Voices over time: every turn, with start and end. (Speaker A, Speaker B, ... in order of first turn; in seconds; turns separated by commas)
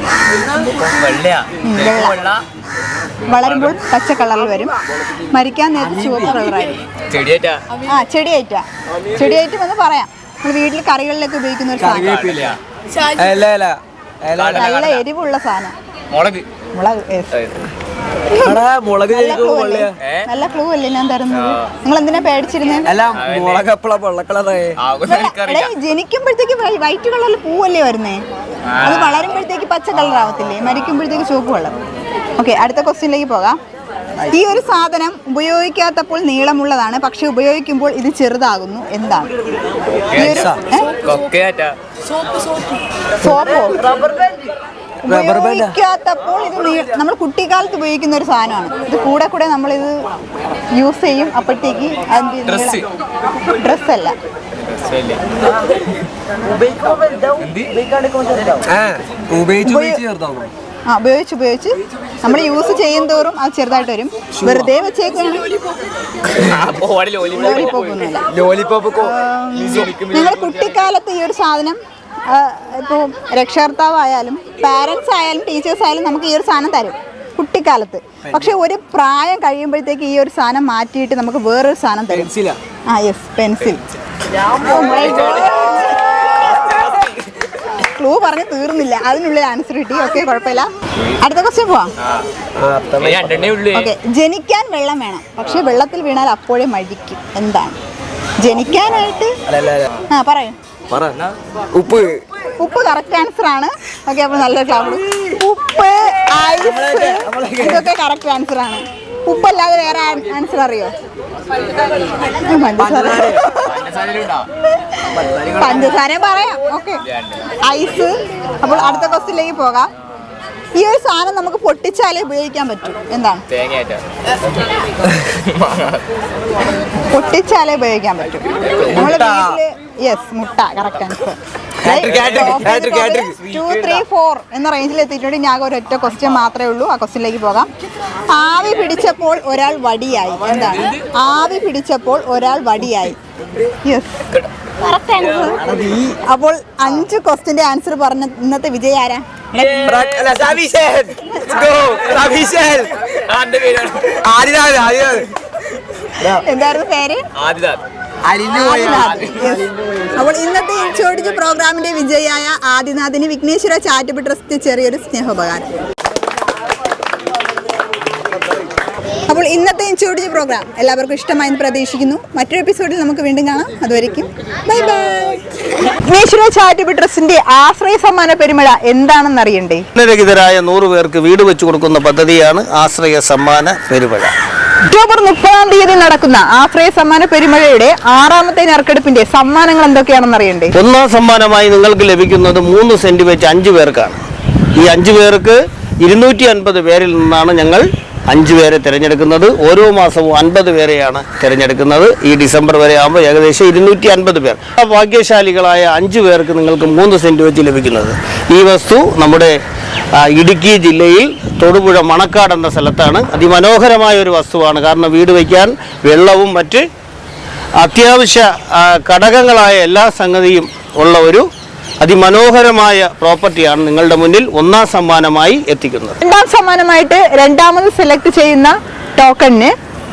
Speaker A: 0.7-2.4, Speaker B: 1.6-2.2, Speaker B: 3.3-4.7, Speaker B: 5.3-6.8, Speaker C: 5.9-6.4, Speaker A: 7.1-7.6, Speaker B: 7.8-12.3, Speaker C: 11.8-14.8, Speaker A: 12.0-12.6, Speaker A: 14.3-15.0, Speaker B: 14.5-15.7, Speaker A: 16.1-16.5, Speaker B: 16.7-17.4, Speaker A: 17.3-17.6, Speaker C: 18.3-19.9, Speaker B: 19.1-22.9, Speaker A: 20.0-20.3, Speaker C: 22.8-24.8, Speaker A: 23.1-23.7, Speaker A: 24.8-25.7, Speaker B: 25.1-28.2, Speaker A: 28.7-29.4, Speaker B: 28.8-31.8, Speaker B: 32.4-33.6, Speaker B: 34.3-39.3, Speaker A: 39.9-41.8, Speaker B: 40.1-40.9, Speaker C: 40.1-40.6, Speaker B: 43.2-43.8, Speaker C: 45.0-45.8, Speaker B: 45.1-50.0, Speaker B: 50.7-52.8, Speaker A: 52.5-52.9, Speaker B: 53.5-54.1, Speaker A: 54.6-55.2, Speaker A: 57.4-57.8, Speaker C: 58.6-60.5, Speaker B: 59.6-60.0, Speaker B: 60.9-65.5, Speaker C: 64.4-64.7, Speaker A: 66.3-67.9, Speaker B: 67.3-68.3, Speaker C: 68.3-70.0, Speaker B: 69.0-71.8, Speaker A: 69.6-70.7, Speaker B: 72.3-82.3, Speaker C: 78.2-78.5, Speaker C: 82.1-82.6, Speaker B: 82.9-83.8, Speaker B: 84.5-86.9, Speaker A: 86.6-87.1, Speaker B: 87.7-91.9, Speaker C: 92.5-93.6, Speaker A: 93.0-93.9, Speaker B: 93.7-97.8, Speaker B: 98.4-99.3, Speaker C: 99.5-100.0, Speaker B: 100.1-100.5, Speaker C: 100.9-102.2, Speaker B: 102.6-110.9, Speaker C: 106.5-107.9, Speaker B: 112.3-113.9, Speaker C: 112.8-113.4, Speaker A: 113.6-114.5, Speaker B: 114.6-117.0, Speaker C: 115.2-115.9, Speaker A: 117.1-117.4, Speaker B: 117.6-119.9, Speaker B: 120.7-123.4, Speaker A: 123.5-124.0, Speaker A: 125.3-126.0, Speaker B: 127.1-137.7, Speaker C: 128.9-129.6, Speaker C: 131.8-133.4, Speaker B: 138.3-143.2, Speaker A: 140.7-141.0, Speaker B: 143.8-144.2, Speaker B: 144.8-145.6, Speaker C: 145.6-146.2, Speaker B: 146.2-149.9, Speaker A: 149.5-150.3, Speaker C: 149.8-152.9, Speaker A: 153.1-154.2, Speaker C: 154.2-155.3, Speaker C: 156.2-156.4, Speaker B: 156.3-157.3, Speaker A: 157.3-157.8, Speaker C: 158.2-159.6, Speaker B: 158.4-165.7, Speaker A: 159.1-159.5, Speaker B: 169.3-179.8, Speaker D: 179.9-184.3, Speaker B: 184.8-190.7, Speaker D: 190.7-194.2, Speaker D: 194.8-209.6, Speaker D: 210.1-216.8, Speaker D: 217.8-221.4, Speaker D: 222.0-226.2, Speaker B: 226.2-229.7